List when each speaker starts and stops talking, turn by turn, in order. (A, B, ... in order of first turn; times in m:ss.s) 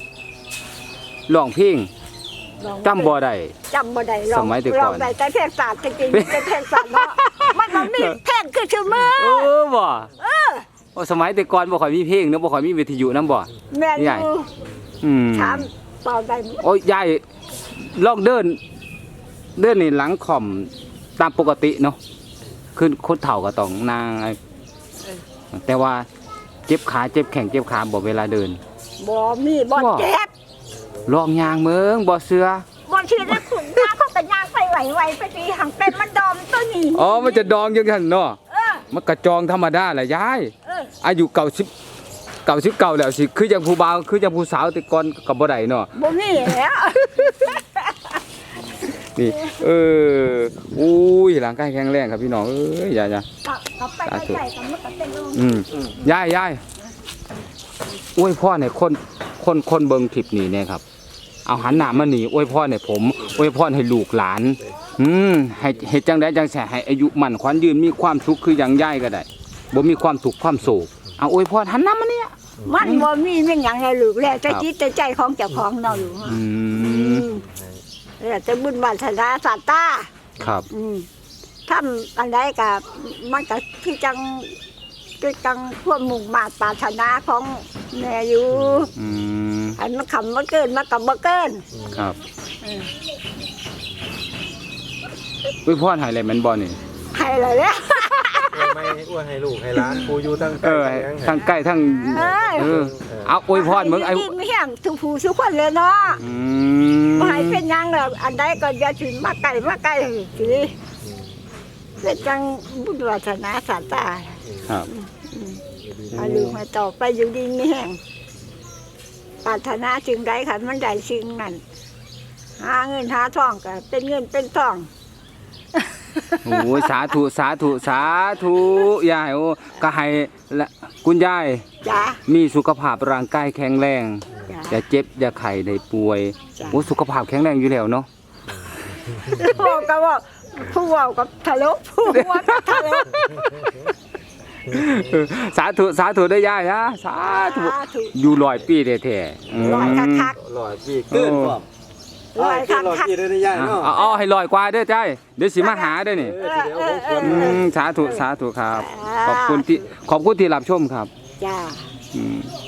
0:01.3-0:01.9 A
0:02.6-0:03.2 B
0:02.8-0:03.5 A
0:03.7-0:09.5 B
0:04.3-0:05.1 A
0:06.1-0:08.2 A
0:09.0-0:10.1 A
0:10.2-0:10.6 B
0:10.9-0:14.3 A
0:13.7-0:14.5 B
0:15.0-0:15.7 A
0:15.3-0:16.6 B
0:16.6-0:17.2 A
0:17.8-0:18.6 A
0:19.6-0:22.0 A
0:22.7-0:24.4 A
0:25.5-0:26.0 A
0:26.7-0:28.6 A
0:29.0-0:30.3 B
0:29.7-0:30.1 A
0:31.0-0:32.6 A
0:32.8-0:37.5 B
0:33.3-0:33.8 A
0:36.9-0:38.4 A
0:38.5-0:38.8 B
0:38.9-0:41.7 A
0:40.6-0:40.9 B
0:42.4-0:45.9 A
0:45.9-0:48.2 B
0:47.1-0:47.5 A
0:49.1-0:53.2 A
0:53.4-0:55.6 B
0:54.0-0:54.4 A
0:55.4-0:56.6 A
0:58.2-1:00.8 A
1:01.4-1:13.0 A
1:12.6-1:17.4 B
1:16.2-1:17.3 A
1:17.5-1:17.8 C
1:18.2-1:20.1 B
1:20.4-1:20.6 A
1:20.7-1:21.1 B
1:21.7-1:24.5 B
1:25.2-1:28.9 B
1:28.9-1:29.8 A
1:29.8-1:31.6 B
1:31.9-1:32.2 A
1:32.6-1:32.9 B
1:35.6-1:36.8 A
1:37.1-1:39.0 B
1:38.5-1:41.4 C
1:40.5-1:44.3 A
1:41.4-1:42.7 B
1:42.7-1:43.2 C
1:43.5-1:46.2 B
1:46.2-1:47.6 A
1:47.2-1:50.7 B
1:52.0-1:58.0 B
1:56.1-1:56.6 A
1:59.4-2:01.6 B
2:02.6-2:04.9 B
2:06.2-2:06.8 B
2:06.4-2:11.6 A
2:11.8-2:12.2 B
2:12.2-2:18.1 A
2:14.5-2:14.8 B
2:19.3-2:23.1 B
2:22.1-2:23.8 A
2:24.6-2:30.3 A
2:27.2-2:28.5 B
2:29.5-2:30.4 B
2:29.6-2:31.6 C
2:31.1-2:31.6 A
2:32.3-2:33.3 B
2:32.4-2:33.9 C
2:33.5-2:36.4 A
2:35.6-2:39.7 B
2:36.3-2:37.6 C
2:37.2-2:41.1 A
2:41.4-2:41.9 B
2:42.1-2:42.5 A